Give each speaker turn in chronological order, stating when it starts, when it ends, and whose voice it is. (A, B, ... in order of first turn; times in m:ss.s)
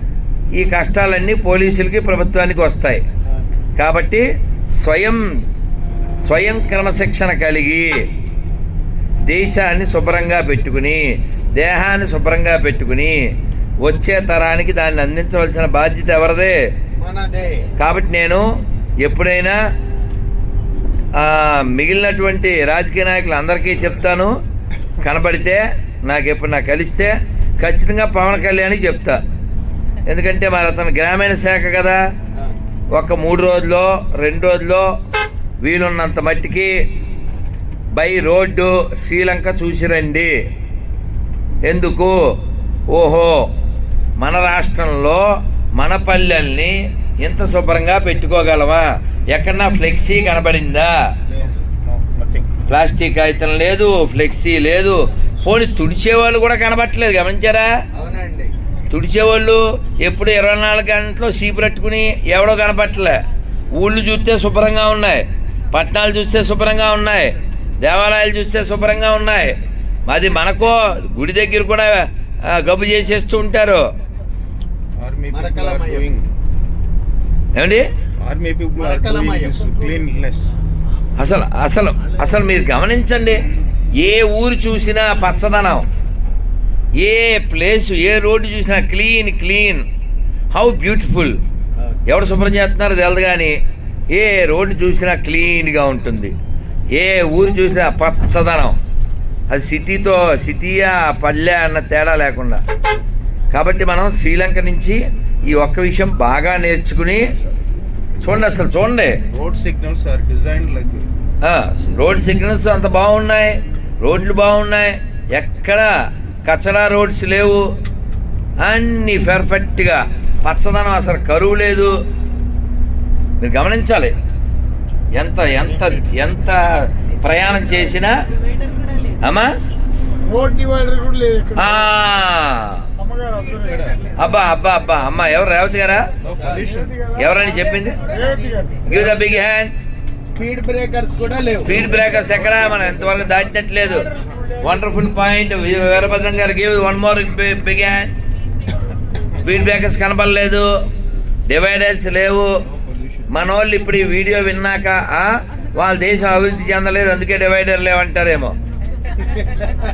0:00.5-0:03.0 A
0:03.8-0:04.2 A
0:04.8-0:05.2 A
0:06.2-0:07.9 A
0:09.2-0:13.2 A
0:13.8-0:16.6 A
0:17.0-0:17.7 B
0:17.8-0:18.5 A
0:19.0-0:19.6 A
0:21.2-0:24.3 A
0:25.0-0:29.2 A
0:30.1-0:32.0 A
0:32.9-0:34.9 A
0:35.6-0:36.7 A
0:37.9-0:40.3 A
0:41.6-0:42.2 A
0:42.9-0:43.4 A
0:44.2-0:45.2 A
0:45.8-0:50.9 A
0:51.4-0:52.5 C
0:52.7-0:57.7 A
0:57.9-0:58.5 B
0:58.9-1:03.2 A
1:03.7-1:13.9 A
1:15.0-1:16.3 C
1:15.3-1:16.1 B
1:17.5-1:17.9 A
1:18.2-1:20.5 C
1:18.7-1:19.7 B
1:21.2-1:23.4 A
1:23.9-1:25.8 A
1:27.0-1:29.8 A
1:30.5-1:31.4 A
1:32.0-1:33.6 A
1:34.1-1:36.3 A
1:36.9-1:38.8 A
1:39.5-1:42.6 A
1:43.5-1:47.2 A
1:48.2-1:49.1 A
1:49.3-1:51.1 C
1:51.4-1:55.9 A
1:56.4-1:57.6 A
1:58.6-2:01.9 A
2:03.4-2:04.1 A
2:05.2-2:08.2 A
2:05.7-2:06.0 C
2:09.2-2:09.5 A
2:10.3-2:11.8 D
2:11.5-2:12.8 A
2:13.0-2:13.8 D
2:13.5-2:14.1 C
2:14.1-2:16.1 A
2:16.2-2:17.1 C
2:16.4-2:16.8 B
2:17.1-2:18.1 A
2:18.0-2:18.8 D
2:18.8-2:19.7 A
2:20.3-2:22.2 B
2:21.6-2:28.1 A
2:21.8-2:23.4 C
2:29.3-2:30.7 A
2:31.5-2:32.5 A
2:32.7-2:33.3 C
2:33.3-2:38.5 A